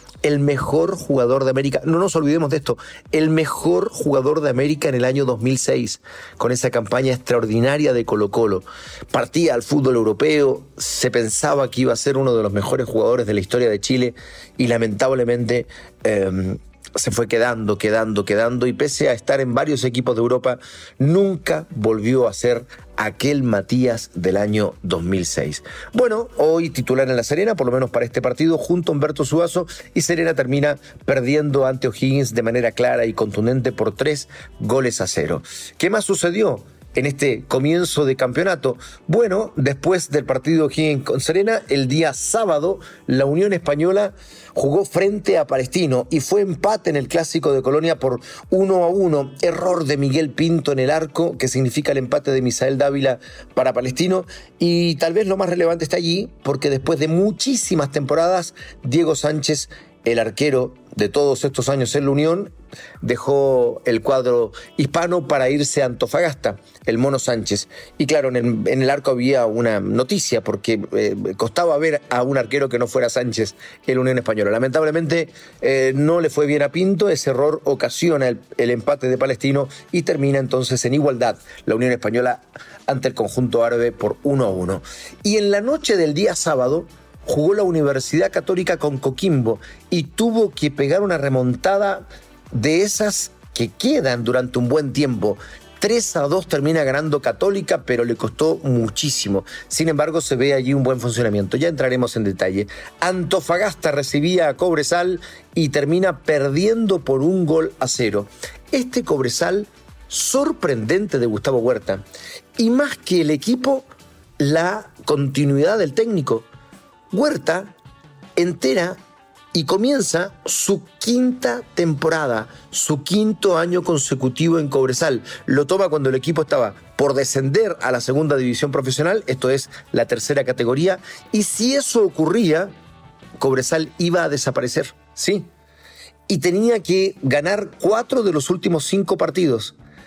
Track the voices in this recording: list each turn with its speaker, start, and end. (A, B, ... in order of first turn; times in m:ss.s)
0:00.2-1:52.0 A
1:52.6-1:53.9 A
1:54.4-1:56.5 A
1:57.1-1:57.7 A
1:58.4-1:59.0 A
1:59.5-2:12.7 A
2:13.4-2:15.5 A
2:16.3-2:19.8 A